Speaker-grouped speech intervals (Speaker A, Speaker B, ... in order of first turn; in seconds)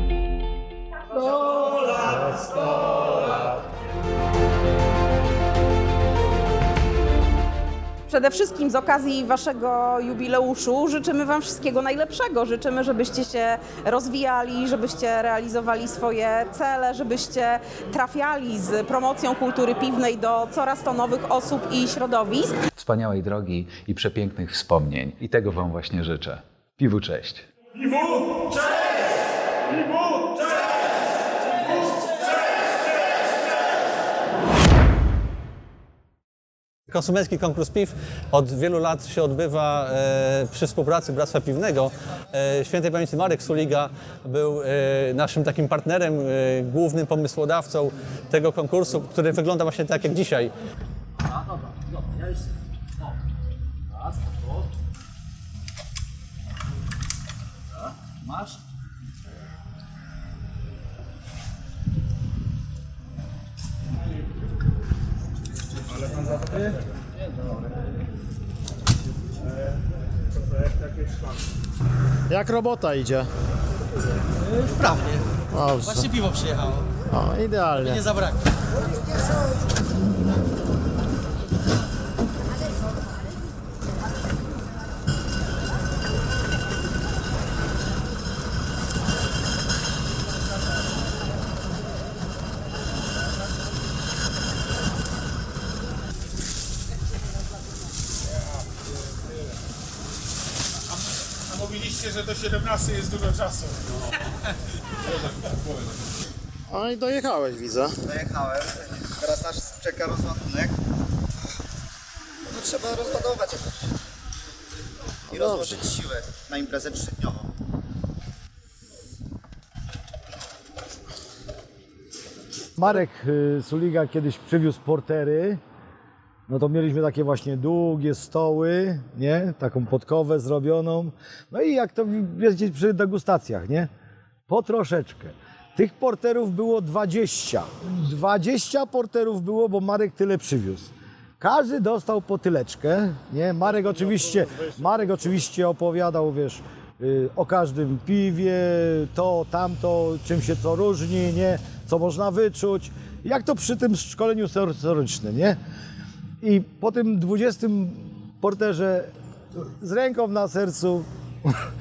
Speaker A: 8.1-22.6
Speaker B: 22.8-27.5
Speaker C: 36.9-50.5
Speaker D: 72.3-73.3, 75.5-76.1, 77.0-78.1, 106.7-108.0, 115.3-115.9
Speaker E: 74.7-75.2, 76.0-76.9, 78.0-78.4
Speaker F: 101.6-103.8
Speaker G: 108.0-110.7, 112.5-113.8, 115.3-117.5
Speaker H: 122.8-125.6, 126.5-133.9, 134.5-155.6, 156.4-161.5